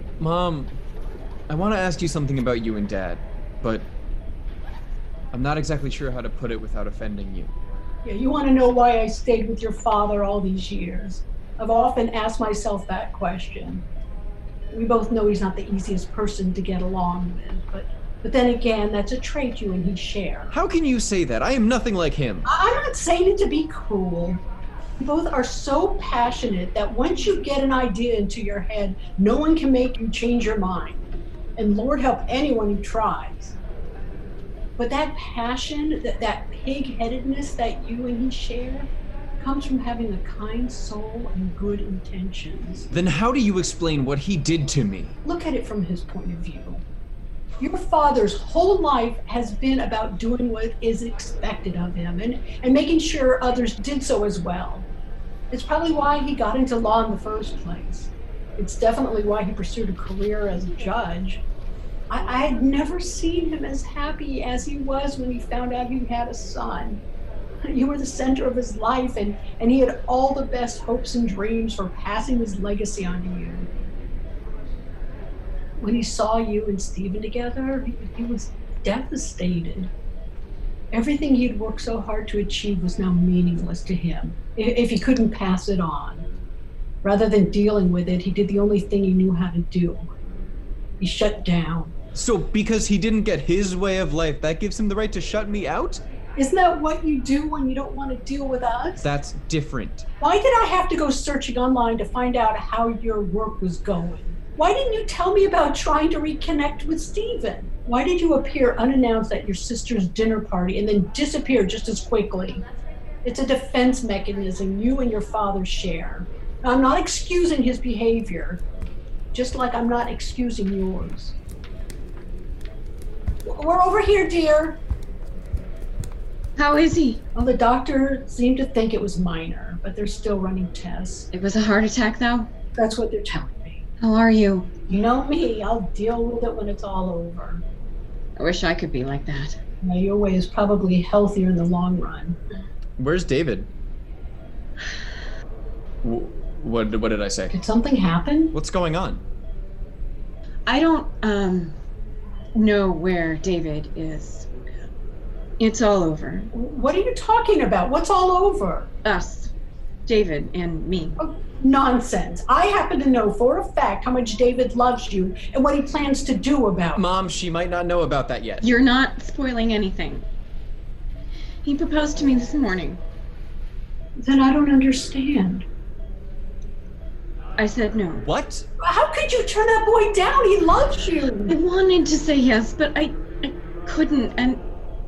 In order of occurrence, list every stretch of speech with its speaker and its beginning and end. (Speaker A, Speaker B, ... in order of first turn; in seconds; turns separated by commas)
Speaker A: 0.2-0.7, Speaker A: 1.5-3.9, Speaker A: 5.3-7.5, Speaker B: 8.0-13.8, Speaker B: 14.7-20.5, Speaker A: 20.5-22.5, Speaker B: 22.4-24.4, Speaker B: 25.0-31.0, Speaker B: 31.6-33.6, Speaker B: 34.8-38.9, Speaker B: 39.4-42.9, Speaker A: 42.9-45.1, Speaker B: 45.2-46.8, Speaker B: 47.6-54.9, Speaker B: 55.5-61.4, Speaker B: 62.1-67.0, Speaker B: 67.6-73.7, Speaker B: 75.8-79.9, Speaker B: 80.9-86.2, Speaker B: 87.0-90.1, Speaker B: 91.0-91.9, Speaker A: 92.1-96.0, Speaker B: 96.4-99.0, Speaker A: 99.0-100.1, Speaker B: 100.2-112.6, Speaker B: 113.2-118.6, Speaker B: 119.3-121.3, Speaker B: 123.5-124.8, Speaker C: 126.6-127.2, Speaker B: 127.3-131.3, Speaker C: 131.3-132.5, Speaker B: 132.7-133.8, Speaker C: 134.0-134.8, Speaker B: 134.9-137.6, Speaker C: 138.4-139.6, Speaker B: 139.8-142.4, Speaker A: 143.0-143.7, Speaker A: 146.0-147.5, Speaker B: 147.5-148.5, Speaker A: 148.5-149.2, Speaker C: 150.7-151.8, Speaker C: 152.5-154.5, Speaker C: 155.6-156.5, Speaker B: 156.5-158.9, Speaker C: 159.0-159.5, Speaker C: 160.1-161.2, Speaker B: 161.2-167.0, Speaker A: 166.9-168.7, Speaker C: 168.6-170.2, Speaker C: 171.6-173.0, Speaker B: 174.2-175.7, Speaker C: 177.6-178.2, Speaker A: 178.2-178.7, Speaker B: 178.8-181.6, Speaker C: 181.4-184.6